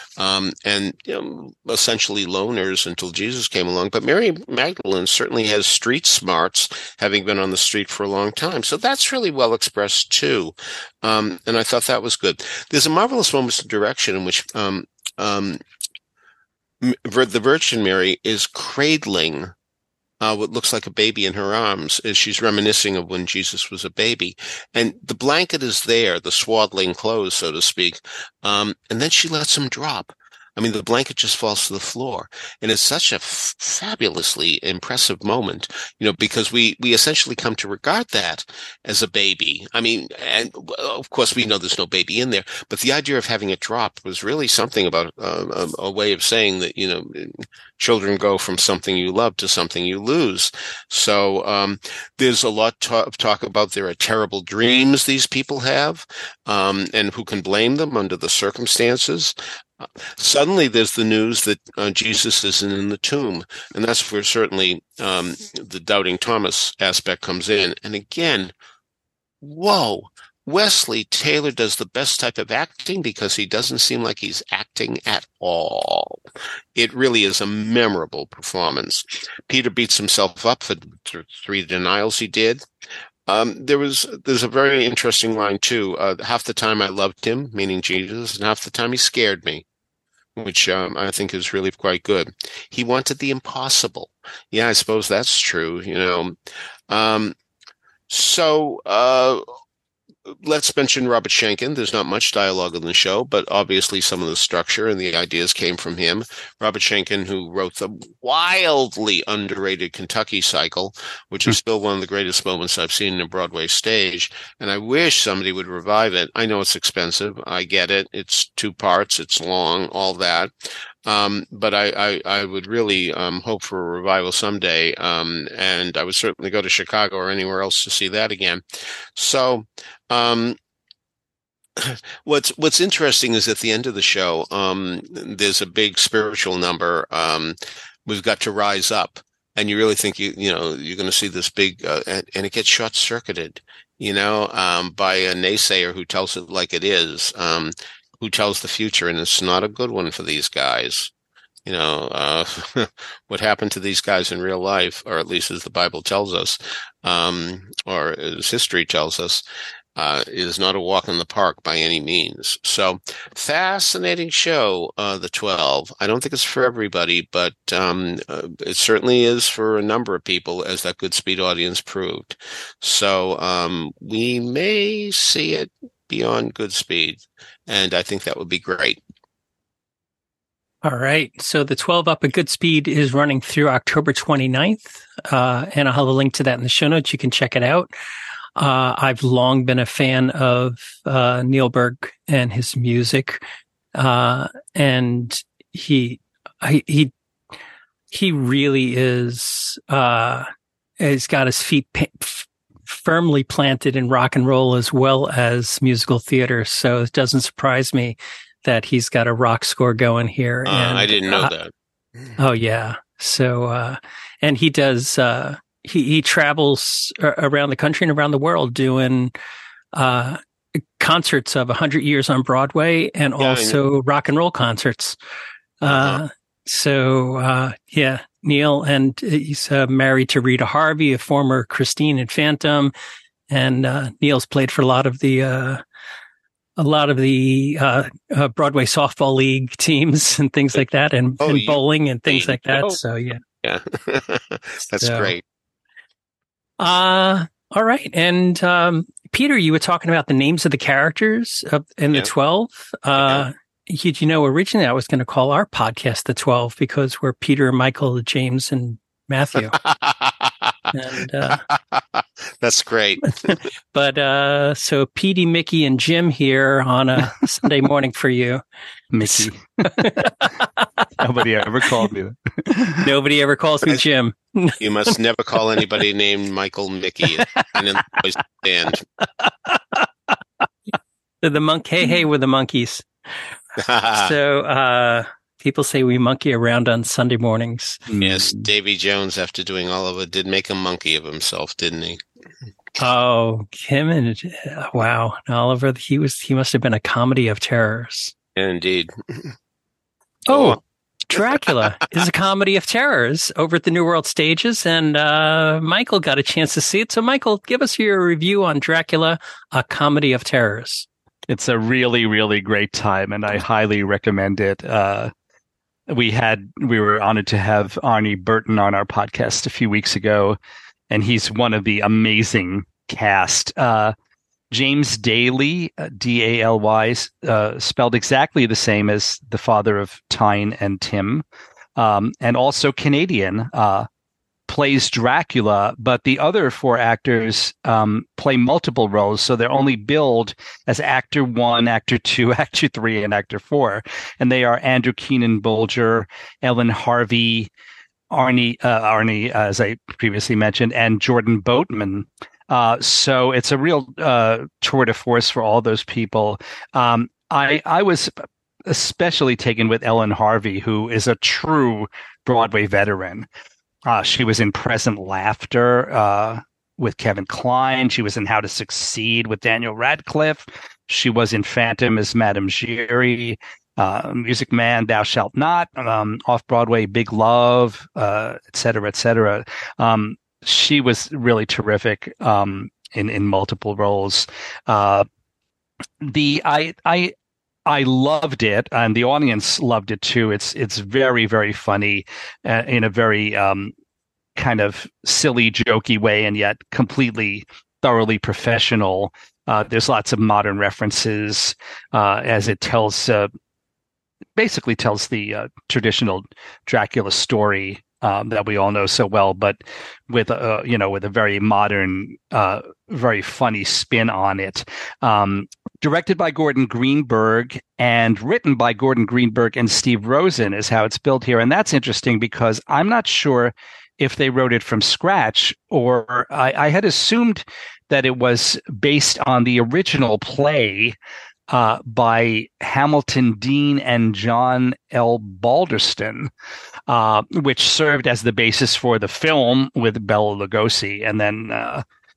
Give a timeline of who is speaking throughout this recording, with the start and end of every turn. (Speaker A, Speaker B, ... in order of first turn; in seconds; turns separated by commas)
Speaker A: 0.2-15.6, Speaker A: 16.8-19.5, Speaker A: 20.2-68.5, Speaker A: 69.4-76.2, Speaker A: 76.8-82.6, Speaker A: 83.3-89.6, Speaker A: 90.3-96.3, Speaker A: 96.9-97.3, Speaker A: 98.1-99.4, Speaker A: 100.3-120.5, Speaker A: 121.0-128.6, Speaker A: 129.1-130.6, Speaker A: 131.8-151.1, Speaker A: 151.7-159.4, Speaker A: 159.9-179.0, Speaker B: 180.8-187.9, Speaker B: 188.6-193.4, Speaker B: 193.9-197.1, Speaker B: 198.1-200.5, Speaker B: 201.0-211.5, Speaker A: 210.7-211.7, Speaker B: 212.4-219.3, Speaker B: 219.9-220.4, Speaker B: 221.0-225.2, Speaker A: 223.4-223.8, Speaker B: 225.8-232.9, Speaker A: 225.9-226.2, Speaker B: 233.5-235.8, Speaker B: 236.8-243.4, Speaker A: 241.4-243.0, Speaker A: 243.6-245.4, Speaker B: 245.0-245.3, Speaker B: 246.8-259.8, Speaker A: 259.8-260.7, Speaker B: 260.9-261.6, Speaker A: 261.7-263.6, Speaker B: 263.5-268.6, Speaker C: 269.1-270.2, Speaker B: 269.3-271.0, Speaker C: 271.2-273.1, Speaker B: 273.0-274.8, Speaker A: 274.8-279.0, Speaker B: 281.4-283.1, Speaker A: 283.8-284.3, Speaker B: 284.1-288.1, Speaker A: 288.2-292.2, Speaker B: 293.0-298.3, Speaker A: 298.6-299.5, Speaker B: 300.5-300.8, Speaker A: 300.5-300.8, Speaker B: 301.3-311.1, Speaker A: 301.3-301.8, Speaker C: 311.5-315.3, Speaker C: 316.1-320.6, Speaker C: 321.1-324.1, Speaker C: 324.7-331.4, Speaker C: 331.9-334.1, Speaker C: 334.7-347.7, Speaker C: 348.3-363.5, Speaker C: 364.1-385.2, Speaker C: 386.2-387.3, Speaker C: 387.9-393.9, Speaker C: 394.5-403.5, Speaker C: 404.6-431.2, Speaker C: 431.7-436.5, Speaker C: 437.1-442.0